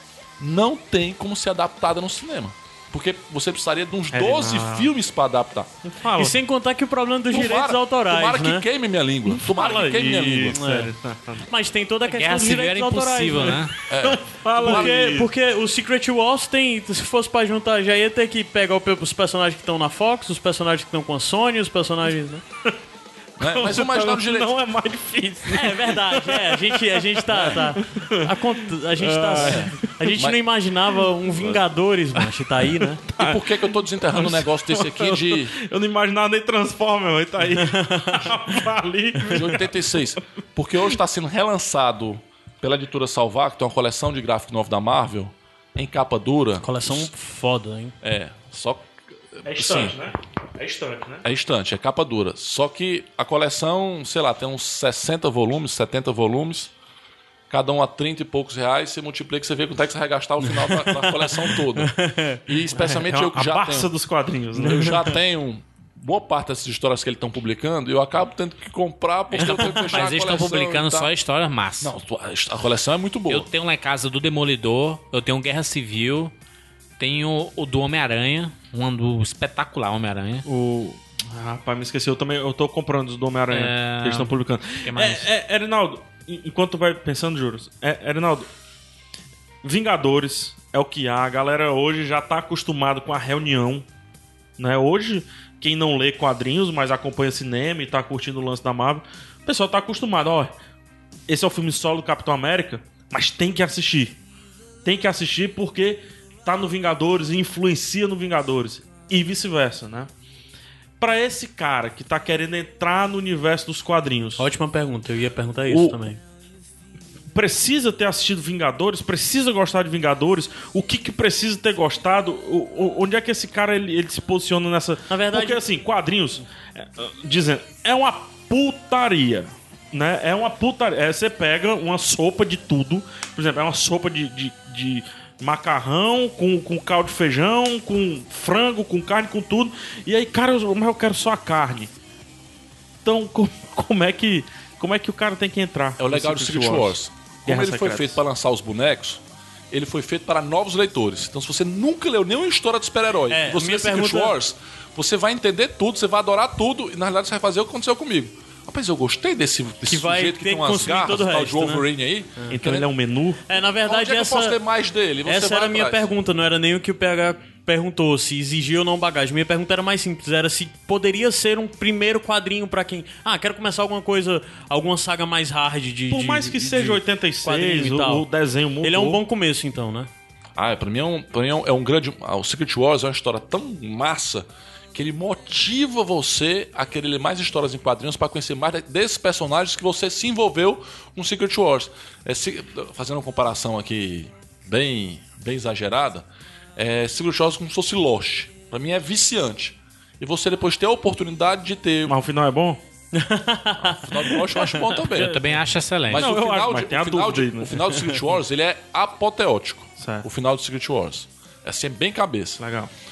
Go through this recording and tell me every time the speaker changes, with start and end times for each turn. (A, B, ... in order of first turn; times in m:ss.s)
0:00.4-0:05.7 A
0:04.1-0:04.9 B
0:05.8-0:06.4 B
0:06.2-0:08.7 C
0:07.3-0:10.6 A
0:09.3-0:11.5 B
0:10.5-0:13.7 C
0:12.1-0:13.8 D
0:13.9-0:15.2 A
0:14.0-0:15.3 B
0:14.6-0:22.4 C
0:23.4-0:29.9 B
0:23.4-0:24.5 A
0:25.5-0:33.0 C
0:29.3-0:30.4 A
0:31.3-0:31.6 A
0:32.6-0:40.2 B
0:33.2-0:35.6 A
0:37.5-0:38.5 C
0:39.3-0:47.1 A
0:46.6-0:48.0 C
0:48.0-0:50.0 A
0:49.4-0:51.2 B
0:51.2-0:56.7 A
0:57.5-1:03.9 A
1:00.5-1:02.9 C
1:02.8-1:05.1 B
1:04.6-1:11.1 A
1:04.6-1:05.1 C
1:09.3-1:11.9 D
1:11.8-1:13.5 A
1:13.3-1:16.3 D
1:17.0-1:20.4 D
1:20.4-1:28.5 B
1:23.5-1:25.3 D
1:29.6-1:33.9 B
1:34.6-1:40.5 B
1:41.3-1:44.2 B
1:44.8-1:50.1 B
1:51.0-1:54.5 B
1:54.4-1:56.2 C
1:55.7-1:56.0 B
1:57.3-2:21.9 B
2:05.1-2:05.6 C
2:23.0-2:28.2 B
2:26.0-2:42.9 A
2:33.3-2:34.4 C
2:39.9-2:41.9 C
2:42.5-2:43.4 B
2:43.5-2:44.6 C
2:43.8-2:46.1 A
2:45.2-2:58.3 C
2:56.1-2:59.2 B
2:58.8-3:00.1 C
3:00.6-3:22.2 A
3:22.0-3:22.8 B
3:23.1-3:25.0 C
3:23.8-3:25.4 A
3:25.1-3:26.3 D
3:25.1-3:25.6 B
3:26.1-3:32.6 A
3:26.1-3:27.9 B
3:30.0-3:30.3 B
3:32.6-3:32.9 B